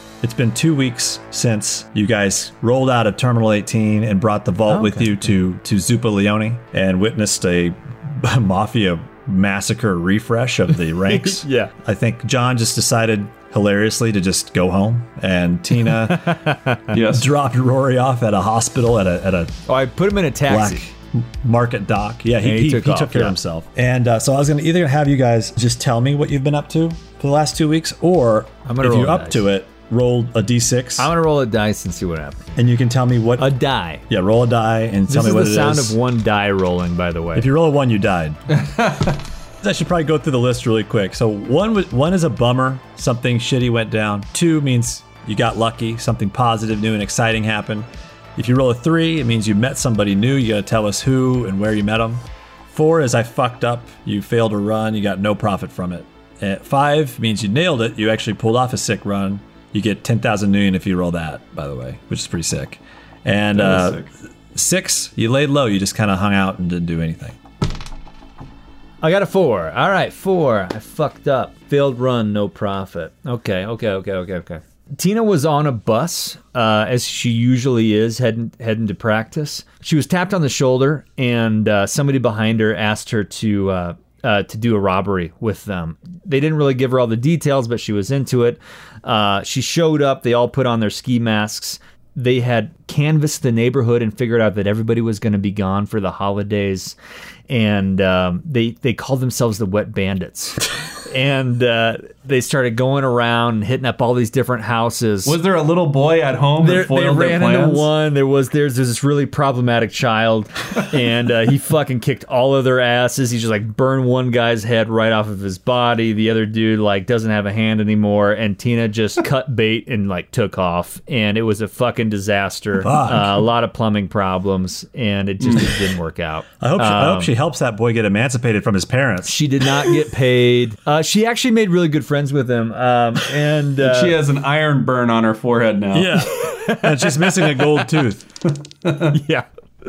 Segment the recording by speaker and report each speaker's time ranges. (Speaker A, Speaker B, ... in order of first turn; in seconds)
Speaker A: 0.2-16.4, 17.1-19.5, 20.5-31.1, 32.5-33.5, 34.1-36.0, 37.3-38.4, 39.6-67.4, 122.8-123.5, 126.6-129.9, 135.9-138.2
Speaker B: 4.7-5.2, 11.0-11.7, 16.1-16.9, 19.7-20.8, 22.4-23.4, 28.6-29.5, 31.0-32.4, 33.4-34.0, 35.1-37.5, 69.0-97.0, 97.5-105.4, 106.6-127.3, 129.2-134.2, 136.2-137.6, 139.1-139.4
Speaker C: 16.9-17.3, 38.5-39.2, 63.5-64.1, 105.2-107.9, 125.4-125.8, 133.8-136.2, 138.8-139.2